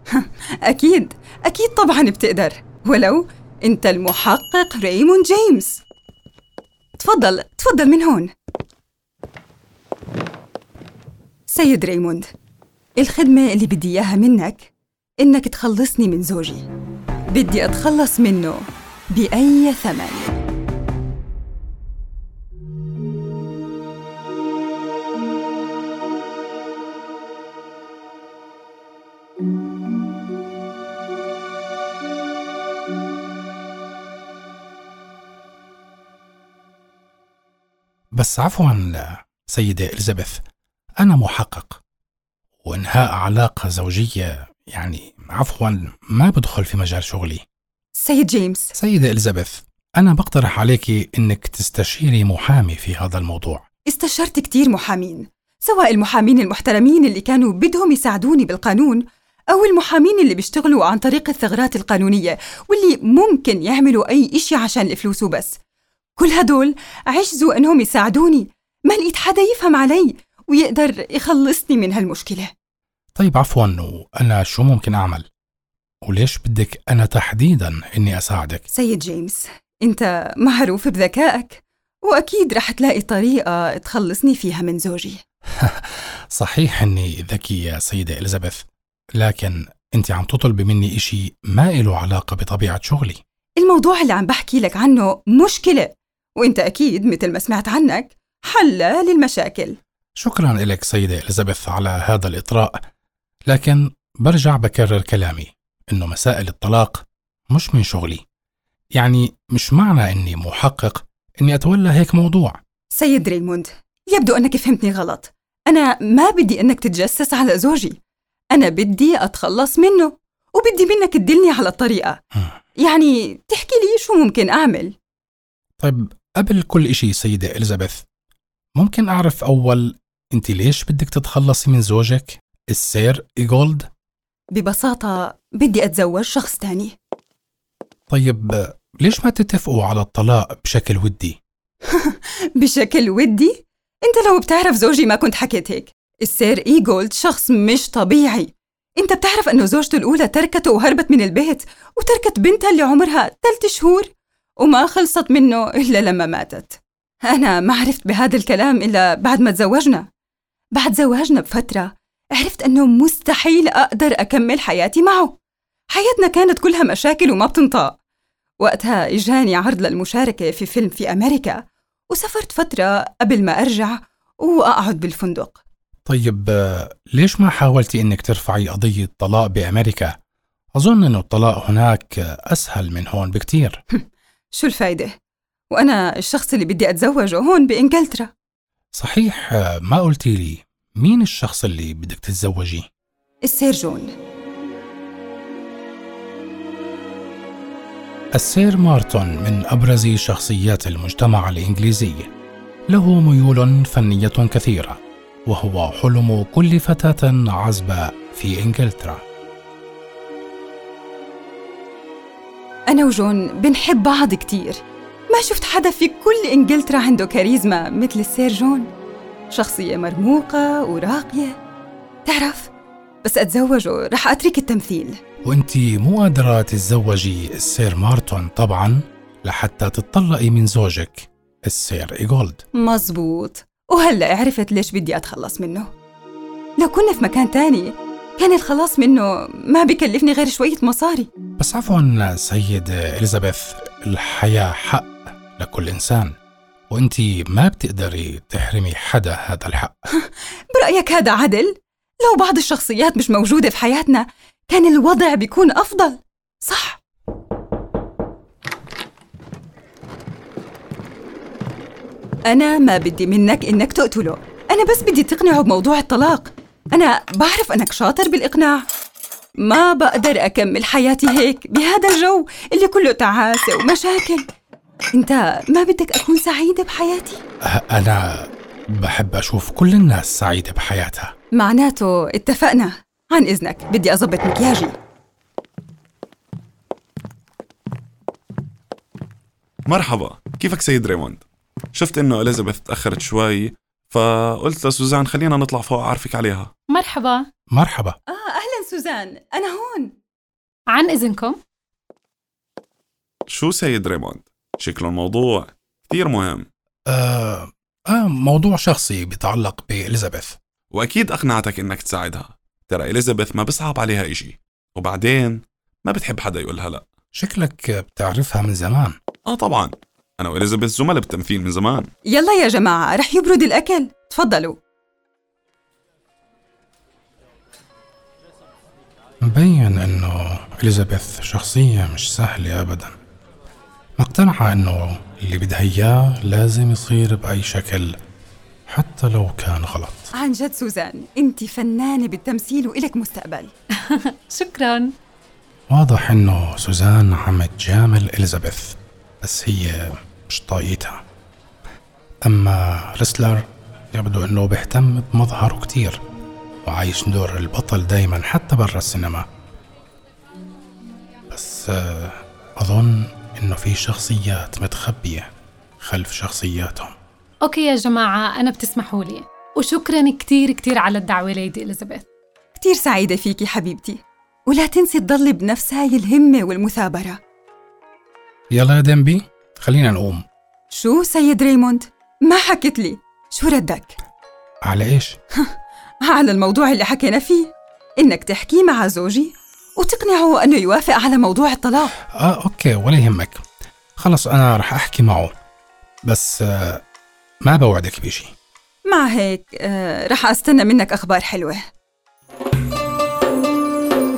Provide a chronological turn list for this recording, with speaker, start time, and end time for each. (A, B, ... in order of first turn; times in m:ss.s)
0:00.2-0:05.8 A
0:07.0-0:08.3 A
0:11.5-0:12.3 A
0:13.0-0:14.7 A
0:15.2-0:16.7 A
0:17.3-0:20.4 A
0:38.2-0:40.4 B
0:41.0-0:41.8 B
0:42.6-0:47.4 B
0:48.0-0:48.7 A
0:48.8-0:53.6 B
0:53.9-1:05.6 A
1:06.2-1:12.5 A
1:13.2-1:15.3 B
1:16.0-1:18.6 B
1:18.7-1:25.2 A
1:25.6-1:33.2 B
1:33.6-1:39.8 A
1:40.2-1:42.8 B
1:43.5-1:48.2 B
1:49.0-1:52.6 B
1:52.9-1:58.0 A
1:58.5-2:02.2 A
2:02.8-2:04.9 A
2:05.8-2:08.0 B
2:08.8-2:13.9 B
2:14.5-2:16.9 A
2:18.1-2:21.4 B
2:21.9-2:34.1 A
2:34.6-2:40.1 A
2:40.8-2:45.4 A
2:45.9-2:48.0 A
2:48.6-2:51.6 A
2:52.1-2:55.6 A
2:56.1-3:00.1 B
3:00.8-3:03.8 B
3:03.9-3:05.1 A
3:05.7-3:08.3 A
3:09.0-3:12.9 B
3:13.5-3:14.1 A
3:18.4-3:22.3 B
3:22.9-3:29.2 B
3:32.9-3:38.9 A
3:39.5-3:41.6 A
3:42.2-3:42.7 A
3:43.2-3:45.2 A
3:45.4-3:52.6 B
3:52.8-3:55.9 A
3:56.8-4:01.3 A
4:01.6-4:06.3 B
4:06.9-4:10.0 B
4:10.2-4:17.0 A
4:22.5-4:28.8 A
4:29.6-4:34.5 A
4:35.2-4:37.4 A
4:37.7-4:41.3 B
4:41.6-4:45.0 A
4:49.9-4:56.7 C
4:56.9-4:57.5 D
4:57.7-4:58.2 B
4:58.3-5:00.1 A
5:00.9-5:01.6 D
5:03.5-5:06.7 C
5:07.1-5:10.6 B
5:10.9-5:17.0 C
5:17.4-5:19.2 B
5:19.5-5:22.1 C
5:22.3-5:24.8 A
5:29.4-5:33.1 B
5:34.2-5:38.2 B
5:38.9-5:40.3 B
5:40.4-5:43.7 A
5:44.0-5:45.1 D
5:45.9-5:51.2 B
5:52.4-5:56.2 B
5:56.8-5:59.5 B
6:01.5-6:05.5 B
6:06.0-6:07.1 B
6:07.6-6:12.2 D
6:12.8-6:17.4 A
6:18.7-6:20.4 B
6:20.9-6:24.1 A
6:24.9-6:25.4 B
6:26.2-6:32.1 A
6:32.4-6:33.6 B
6:34.2-6:35.5 B
6:36.3-6:37.0 B
6:37.6-6:38.5 B
6:39.1-6:41.8 A